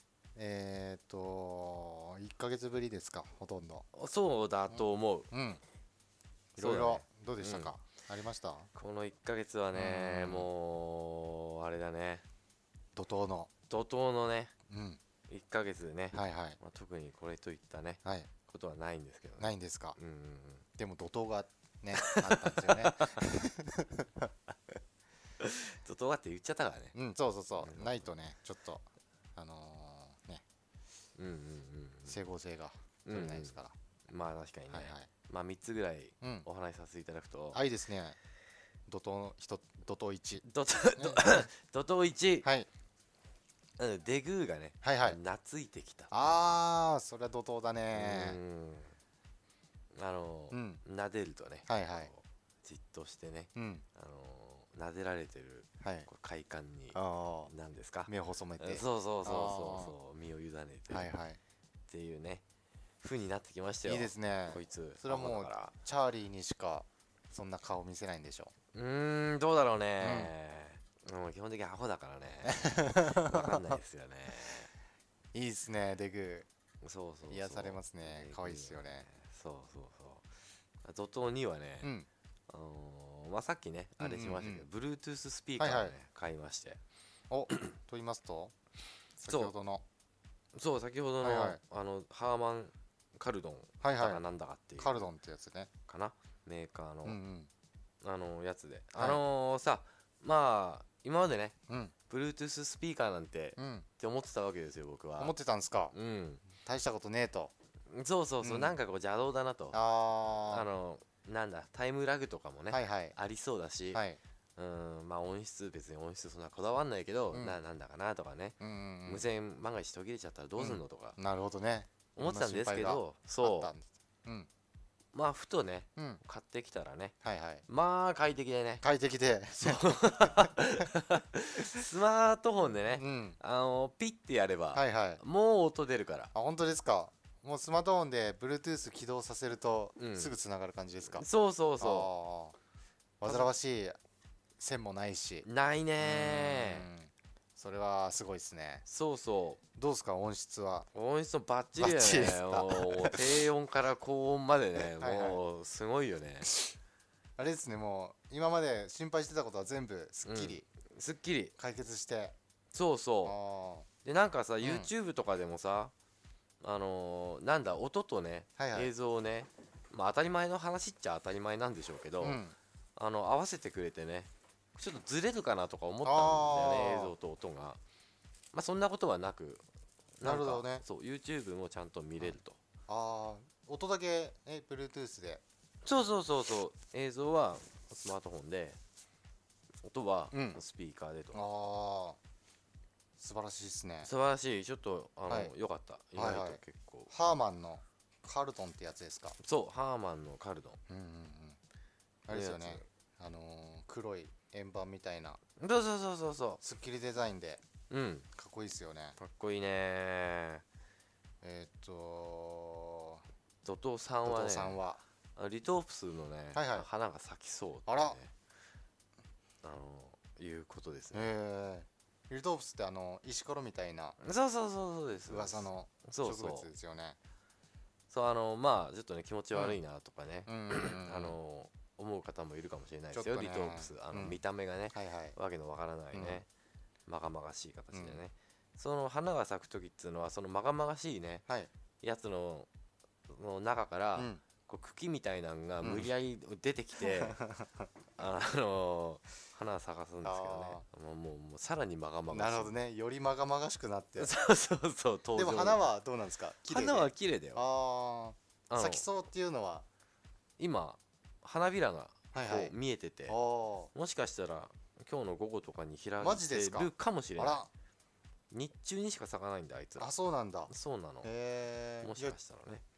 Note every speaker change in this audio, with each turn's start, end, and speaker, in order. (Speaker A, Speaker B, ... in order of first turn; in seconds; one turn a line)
Speaker A: 0.3-3.9
Speaker B: 3.9-5.3
Speaker A: 4.7-5.6
Speaker A: 6.5-8.7
Speaker B: 6.6-7.7
Speaker B: 8.8-12.2
Speaker A: 9.7-10.5
Speaker A: 12.9-13.5
Speaker B: 13.7-14.5
Speaker A: 14.7-15.0
Speaker B: 15.3-20.6
Speaker A: 16.1-16.6
Speaker A: 18.1-18.3
Speaker A: 19.4-20.0
Speaker A: 20.8-24.3
Speaker B: 22.0-23.2
Speaker B: 25.4-26.9
Speaker A: 26.9-28.8
Speaker B: 27.6-28.1
Speaker A: 29.4-30.4
Speaker B: 31.2-32.2
Speaker A: 32.1-33.7
Speaker B: 33.0-33.6
Speaker B: 34.1-37.6
Speaker A: 34.7-35.1
Speaker A: 36.2-36.5
Speaker A: 37.5-38.2
Speaker A: 38.9-40.5
Speaker B: 40.4-42.5
Speaker A: 41.0-41.5
Speaker A: 42.4-42.7
Speaker B: 43.8-46.5
Speaker A: 44.8-45.2
Speaker A: 46.1-48.4
Speaker B: 47.9-48.9
Speaker B: 49.9-57.0
Speaker A: 50.5-50.8
Speaker A: 51.7-52.1
Speaker A: 53.5-53.8
Speaker A: 55.8-56.1
Speaker A: 56.9-57.5
Speaker B: 57.5-61.1
Speaker A: 58.1-59.9
Speaker A: 60.9-61.4
Speaker B: 61.9-62.4
Speaker B: 63.0-65.7
Speaker A: 63.9-68.5
Speaker B: 68.7-74.7
Speaker A: 70.0-70.3
Speaker A: 72.4-73.8
Speaker A: 75.3-76.5
Speaker B: 76.8-80.2
Speaker A: 77.3-79.1
Speaker B: 80.8-81.9
Speaker A: 81.8-82.1
Speaker B: 82.5-86.8
Speaker A: 84.0-84.7
Speaker A: 85.6-86.0
Speaker A: 87.3-88.5
Speaker A: 89.2-89.8
Speaker B: 89.3-89.5
Speaker B: 90.5-95.1
Speaker A: 91.2-91.6
Speaker A: 93.8-94.2
Speaker A: 94.8-95.7
Speaker B: 95.9-97.2
Speaker A: 97.0-97.5
Speaker B: 98.0-101.5
Speaker A: 99.0-99.2
Speaker A: 101.7-101.9
Speaker B: 102.1-105.3
Speaker A: 103.6-103.9
Speaker A: 105.2-105.9
Speaker B: 105.9-106.4
Speaker A: 106.5-107.5
Speaker B: 107.9-109.8
Speaker A: 108.4-108.7
Speaker A: 109.7-110.7
Speaker B: 110.5-114.0
Speaker A: 112.7-113.2
Speaker A: 113.9-114.2
Speaker B: 114.6-121.2
Speaker A: 117.3-117.6
Speaker A: 118.6-119.2
Speaker A: 120.6-124.5
Speaker B: 122.2-123.7
Speaker B: 125.1-127.1
Speaker A: 127.2-127.6
Speaker B: 127.7-128.8
Speaker A: 128.8-130.5
Speaker B: 129.6-136.3
Speaker A: 132.9-133.4
Speaker A: 134.7-135.2
Speaker A: 136.3-141.2
Speaker B: 140.0-140.3
Speaker B: 141.1-142.1
Speaker A: 141.8-142.6
Speaker A: 143.2-144.0
Speaker A: 144.6-145.4
Speaker B: 145.4-146.9
Speaker A: 146.0-148.8
Speaker B: 148.9-149.6
Speaker A: 149.8-150.9
Speaker B: 150.9-156.5
Speaker A: 151.8-153.4
Speaker A: 154.8-155.4
Speaker A: 157.4-160.7
Speaker B: 160.3-161.5
Speaker A: 161.6-162.4
Speaker B: 162.7-163.4
Speaker A: 163.2-163.9
Speaker B: 164.1-165.9
Speaker A: 164.6-164.9
Speaker B: 166.6-172.4
Speaker A: 168.6-168.9
Speaker A: 172.2-172.6
Speaker B: 172.9-177.8
Speaker A: 176.1-177.2
Speaker B: 178.5-179.6
Speaker B: 180.2-182.6
Speaker A: 180.2-180.8
Speaker A: 182.9-185.4
Speaker B: 185.8-188.8
Speaker B: 189.8-191.4
Speaker A: 190.3-190.6
Speaker A: 191.3-192.2
Speaker A: 193.2-194.1
Speaker B: 194.0-197.1
Speaker A: 195.3-195.5
Speaker A: 196.2-199.4
Speaker B: 199.4-200.8
Speaker A: 200.9-201.6
Speaker A: 202.2-205.4
Speaker B: 202.3-202.9
Speaker B: 205.6-206.6
Speaker A: 206.6-207.6
Speaker B: 207.9-208.3
Speaker A: 208.3-209.2
Speaker B: 209.2-210.6
Speaker A: 211.4-213.2
Speaker B: 213.6-214.8
Speaker A: 214.2-215.0
Speaker B: 215.4-218.3
Speaker A: 216.5-216.9
Speaker A: 217.9-218.2
Speaker B: 219.6-221.3
Speaker A: 221.1-224.2
Speaker B: 224.2-226.7
Speaker A: 225.3-227.2
Speaker B: 228.1-236.5
Speaker A: 230.5-231.4
Speaker A: 233.1-234.4
Speaker A: 234.9-235.3
Speaker A: 236.1-236.4
Speaker B: 237.1-241.4
Speaker A: 237.9-238.2
Speaker B: 242.0-242.7
Speaker B: 243.3-247.4
Speaker A: 244.2-244.4
Speaker A: 245.8-246.1
Speaker A: 247.0-247.9
Speaker B: 248.2-252.7
Speaker A: 250.2-250.8
Speaker A: 252.3-254.3
Speaker B: 254.2-255.8
Speaker A: 255.4-259.9
Speaker B: 256.7-257.6
Speaker B: 258.7-259.1
Speaker B: 260.6-263.4
Speaker A: 262.3-262.8
Speaker A: 263.3-263.9
Speaker B: 263.9-267.6
Speaker A: 266.2-267.7
Speaker B: 268.5-270.1
Speaker A: 270.0-270.7
Speaker B: 270.7-271.3
Speaker A: 271.2-272.4
Speaker B: 272.0-272.8